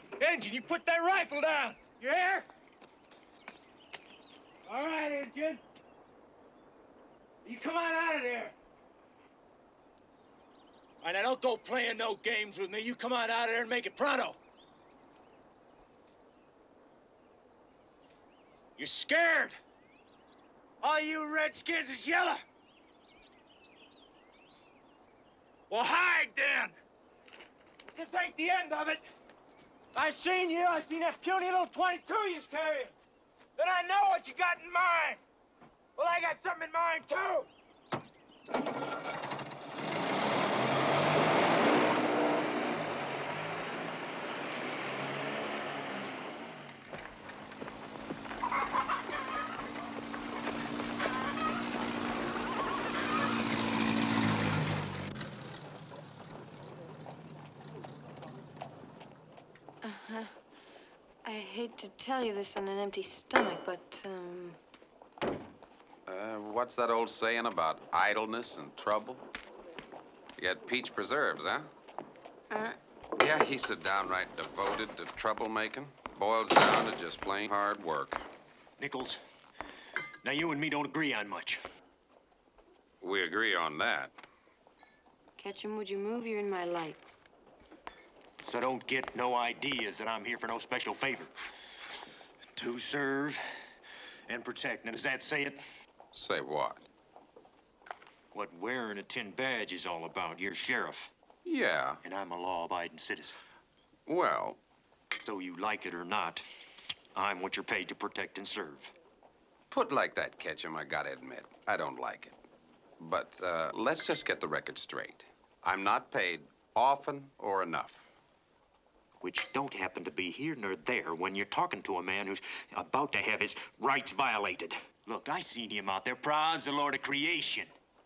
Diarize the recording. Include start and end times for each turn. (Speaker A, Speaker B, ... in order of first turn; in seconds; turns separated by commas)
Speaker A: 0.2-2.5, Speaker A: 4.7-5.6, Speaker A: 7.5-8.5, Speaker A: 11.0-14.4, Speaker A: 18.8-19.6, Speaker A: 20.8-22.4, Speaker A: 25.7-26.8, Speaker A: 27.9-29.0, Speaker A: 29.9-32.9, Speaker A: 33.6-35.2, Speaker A: 36.0-37.5, Speaker B: 59.8-60.3, Speaker B: 61.2-64.6, Speaker C: 66.1-69.2, Speaker C: 70.4-71.7, Speaker B: 72.5-72.8, Speaker C: 73.2-78.2, Speaker A: 78.8-79.2, Speaker A: 80.2-81.6, Speaker C: 83.0-84.1, Speaker B: 85.4-87.0, Speaker A: 88.4-91.3, Speaker A: 92.6-93.4, Speaker A: 94.3-95.6, Speaker C: 96.1-96.9, Speaker A: 98.3-101.1, Speaker C: 101.5-102.0, Speaker A: 102.0-103.4, Speaker C: 104.1-104.6, Speaker A: 105.2-106.5, Speaker A: 107.2-108.9, Speaker C: 109.7-112.4, Speaker C: 113.0-118.1, Speaker A: 119.2-127.7